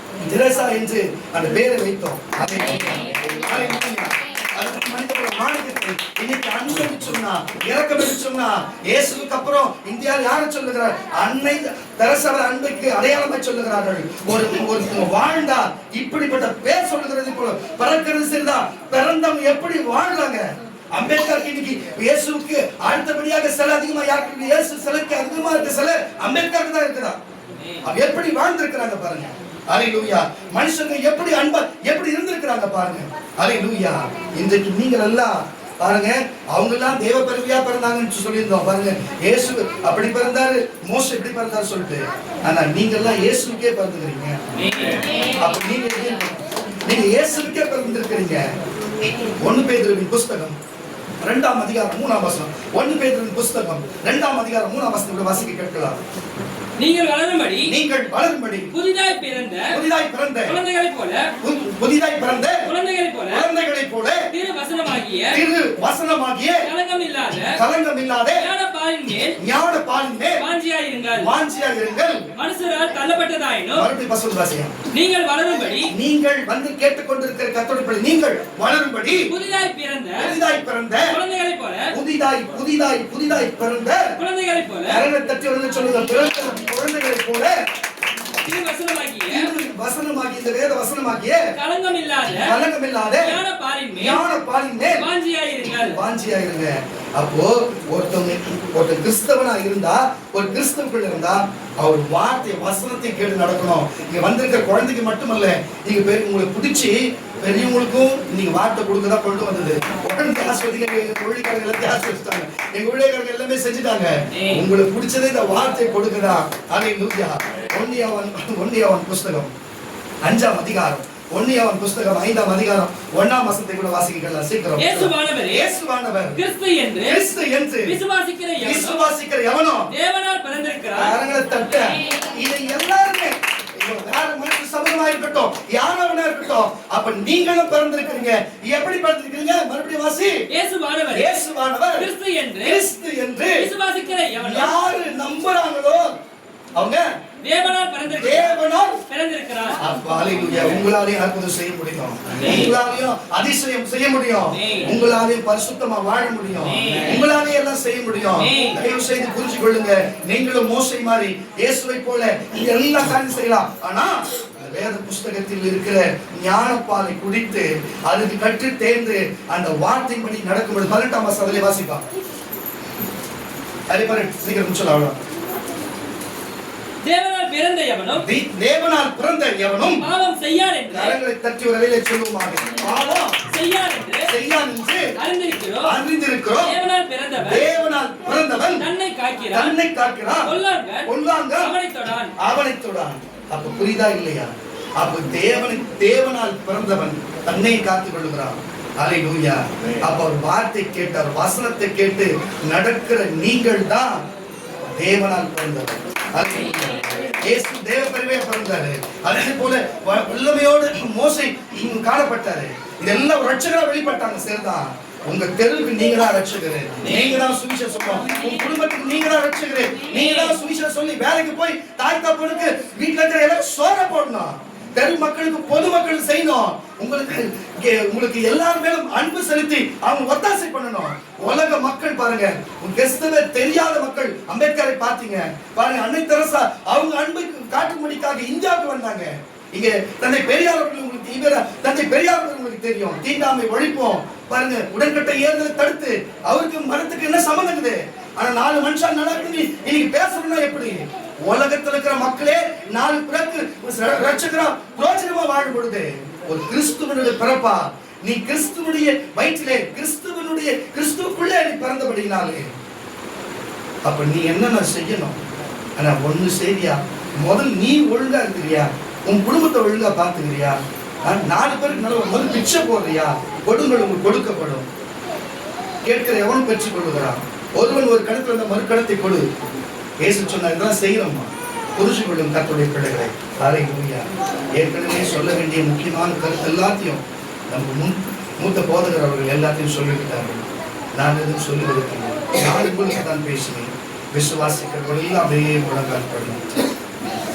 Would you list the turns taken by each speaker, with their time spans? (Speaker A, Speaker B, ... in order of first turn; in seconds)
Speaker A: 0.2-27.2, 27.8-44.4, 45.4-48.4, 49.2-50.6, 51.2-56.0, 57.7-58.7, 59.7-60.6, 61.4-62.7, 63.3-64.3, 65.3-66.7, 67.4-68.5, 69.4-70.5, 71.2-72.2, 73.7-74.7, 75.9-79.3, 80.2-81.2, 81.9-84.2, 84.9-87.5, 89.3-91.5, 92.3-93.4, 93.9-95.1, 95.7-119.5, 120.2-126.4, 127.0-128.0, 128.6-129.9, 130.9-140.4, 141.1-142.1, 142.6-143.7, 144.4-146.1, 146.8-147.0, 148.1-149.0, 149.8-172.0, 173.9-175.2, 178.1-180.1, 180.9-183.4, 184.2-185.2, 185.8-186.8, 187.4-188.9, 189.5-191.8, 192.4-204.2, 204.9-262.7, 264.1-265.4, 266.0-274.9, 276.1-279.5, 280.2-290.6, 291.2-296.6
Speaker B: 44.6-45.3, 56.8-57.7, 58.7-59.8, 60.5-61.3, 62.6-63.4, 64.3-65.4, 66.6-67.6, 68.4-69.4, 70.4-71.3, 72.3-73.9, 74.9-75.9, 79.2-80.3, 81.1-81.9, 84.2-85.0, 88.4-89.5, 91.5-92.6, 93.2-94.2, 95.0-96.0, 114.3-114.7, 124.8-125.7, 126.3-127.2, 127.8-129.1, 129.9-131.2, 140.5-141.4, 142.0-142.8, 143.6-144.8, 147.4-149.8, 154.5-155.0, 156.7-157.2, 158.4-158.8, 177.0-178.2, 179.9-181.2, 183.4-184.3, 185.2-185.9, 186.6-187.7, 188.8-189.7, 190.4-192.3, 217.0-217.5, 218.2-218.7, 220.0-220.6